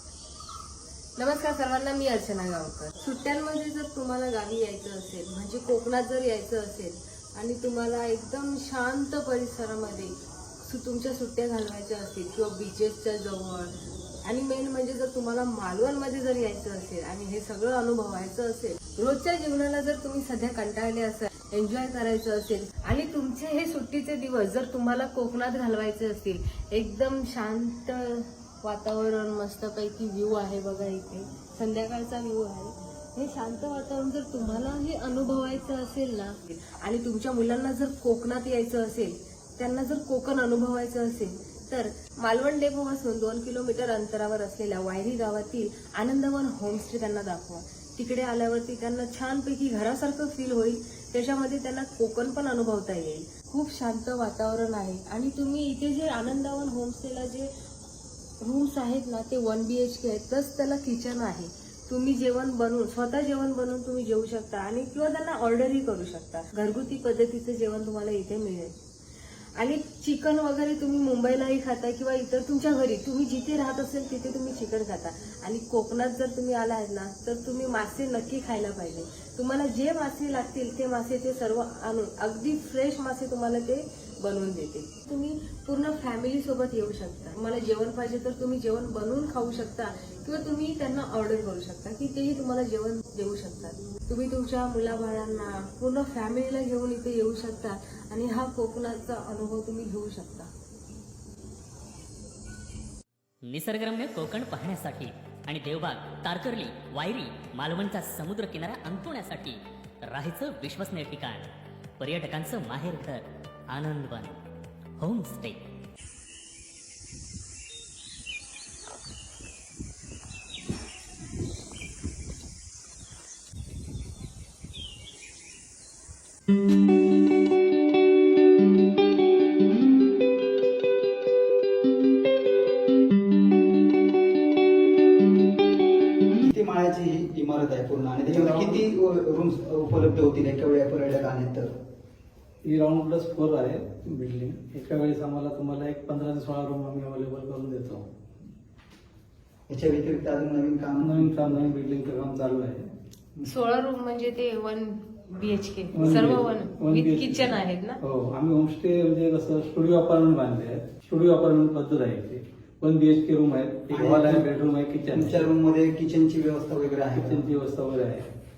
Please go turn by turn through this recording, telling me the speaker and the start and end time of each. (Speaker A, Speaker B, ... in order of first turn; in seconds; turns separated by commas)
Speaker A: 1.1-13.7, Speaker A: 14.2-57.5, Speaker A: 58.4-68.8, Speaker A: 69.6-100.5, Speaker B: 103.5-109.6, Speaker B: 110.1-114.4, Speaker B: 115.0-115.6, Speaker C: 136.4-141.7, Speaker D: 138.2-138.9, Speaker D: 142.6-148.1, Speaker C: 149.7-151.3, Speaker D: 151.0-152.9, Speaker A: 153.4-158.0, Speaker D: 155.9-165.5, Speaker C: 163.9-164.4, Speaker C: 165.1-167.5, Speaker D: 167.1-168.3